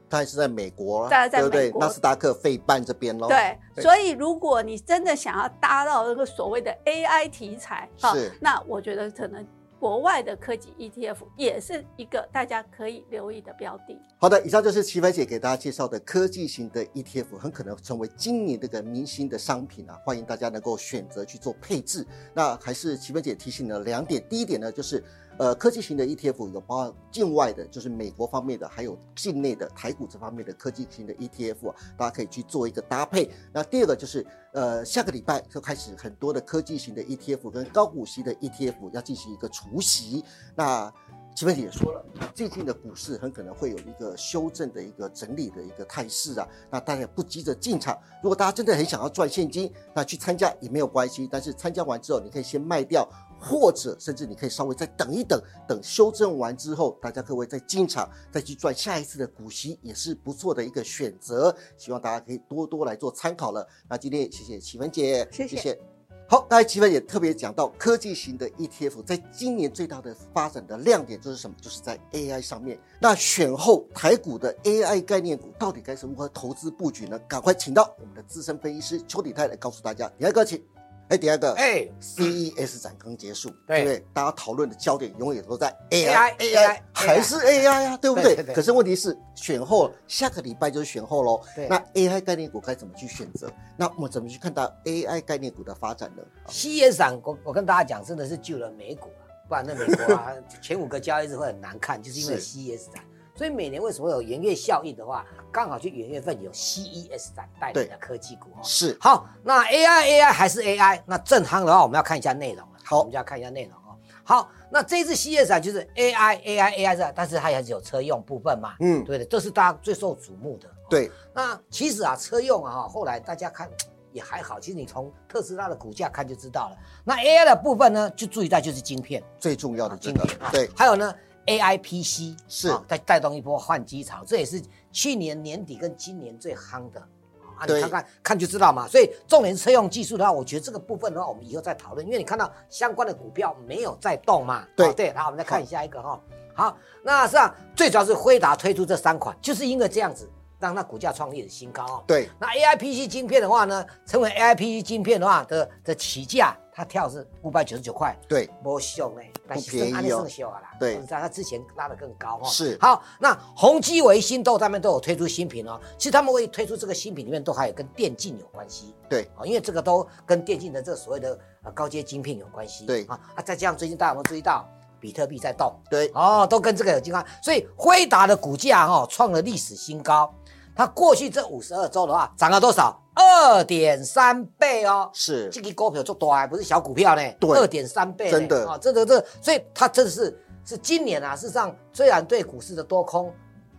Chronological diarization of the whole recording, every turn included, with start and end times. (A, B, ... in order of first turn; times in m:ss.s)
0:00.1-0:03.9 A
0:01.1-0:02.0 B
0:03.3-0:14.0 B
0:08.0-0:08.3 A
0:14.2-1:36.5 A
1:05.3-1:05.6 B
1:21.5-1:22.2 C
1:26.0-1:27.6 C
1:28.1-1:28.6 C
1:36.5-2:09.3 C
1:39.9-1:40.2 A
1:42.2-1:42.4 A
1:48.6-1:49.0 A
1:58.8-1:59.1 A
2:09.4-2:10.7 A
2:09.9-3:13.4 C
2:12.5-2:12.8 A
2:17.6-2:17.9 A
2:24.8-2:25.6 A
2:39.5-2:40.3 A
2:42.4-2:42.8 A
3:05.1-3:05.6 A
3:07.4-3:07.7 A
3:08.3-3:08.7 A